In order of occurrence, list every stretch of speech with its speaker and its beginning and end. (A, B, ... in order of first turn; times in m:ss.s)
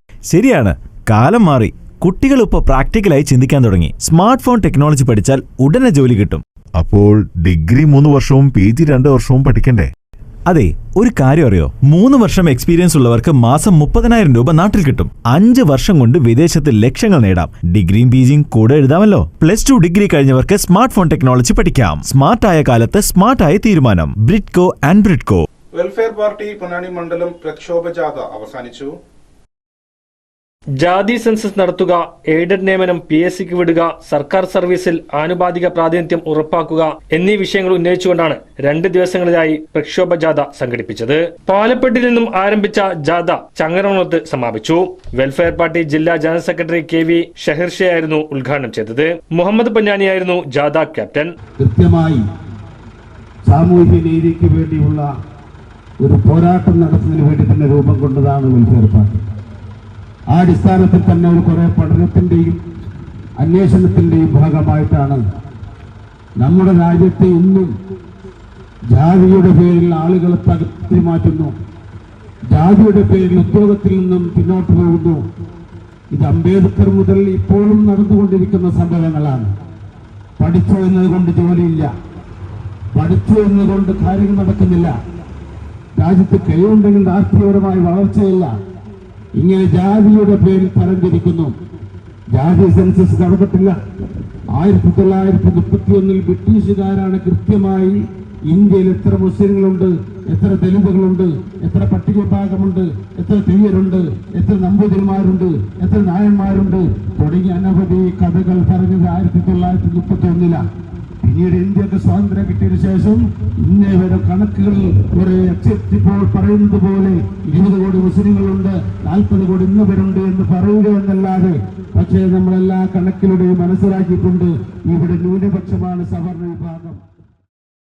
0:00.3-0:06.4 A
0:06.8-0:09.9 B
0:10.5-0:25.4 A
0:25.8-0:28.9 C
0:30.8-0:51.3 D
0:51.6-0:52.2 E
0:53.4-0:55.1 E
0:56.0-0:59.2 E
1:00.3-1:02.6 E
1:03.4-1:05.2 E
1:06.4-1:07.7 E
1:08.9-1:11.5 E
1:12.5-1:15.2 E
1:16.1-1:19.5 E
1:20.4-1:21.9 E
1:23.0-1:24.9 E
1:26.0-1:28.5 E
1:29.4-1:31.5 E
1:32.3-1:33.7 E
1:34.6-1:50.6 E
1:51.2-2:07.0 E